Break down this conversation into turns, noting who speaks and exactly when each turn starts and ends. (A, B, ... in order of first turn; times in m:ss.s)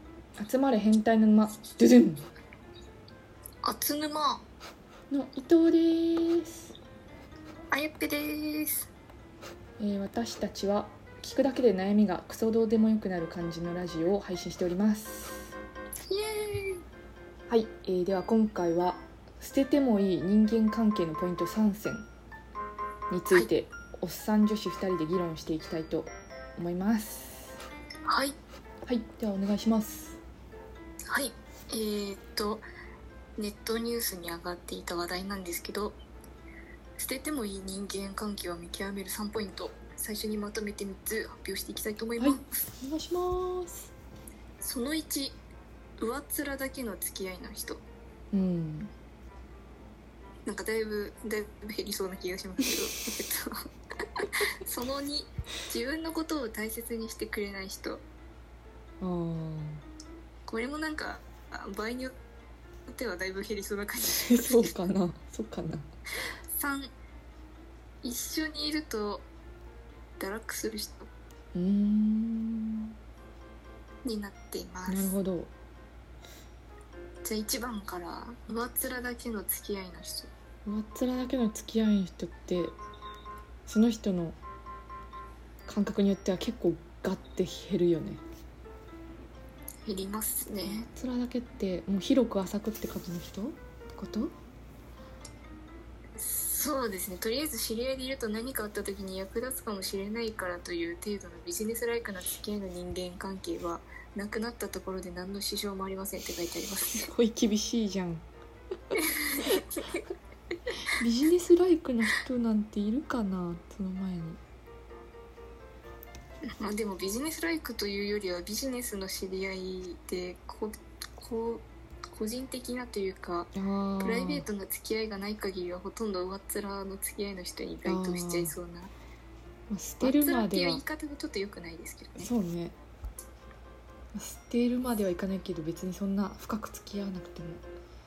0:00.4-0:02.2 A
0:03.6-0:04.4 B
0:05.1-0:06.8 A
0:07.7-0:08.9 B
0:09.8-0:15.6 A
0:16.1-0:16.8 B
0:17.5-0:22.1 A
0:23.1-0:27.6 A
0:28.1-0:28.4 B
0:28.8-0:30.2 A
0:31.1-0:32.6 B
0:33.4-0:36.0 B
0:37.0-0:42.4 B
0:42.2-0:43.9 A
0:44.6-0:45.4 B
0:46.0-0:47.8 B
0:48.3-0:48.9 A
0:50.5-0:53.6 B
0:54.2-0:58.0 B
0:59.0-0:59.8 A
1:00.5-1:02.1 B
1:02.9-1:04.7 B
1:04.2-1:05.9 A
1:06.5-1:06.9 B
1:08.0-1:09.3 B
1:10.2-1:11.1 B
1:11.6-1:12.9 A
1:14.0-1:15.1 B
1:14.9-1:15.5 A
1:17.2-1:20.3 B
1:20.7-1:22.8 A
1:23.7-1:24.4 A
1:25.7-1:28.2 A
1:29.8-1:30.9 B
1:30.6-1:34.3 A
1:36.2-1:47.1 B
1:47.0-1:48.2 A
1:49.0-1:50.0 B
1:49.2-1:49.6 A
1:50.9-1:54.4 A
1:56.6-2:08.9 B
2:03.6-2:04.5 A
2:07.8-2:08.6 A
2:09.7-2:10.8 A
2:10.0-2:12.3 B
2:12.2-2:12.8 A
2:14.1-2:17.6 A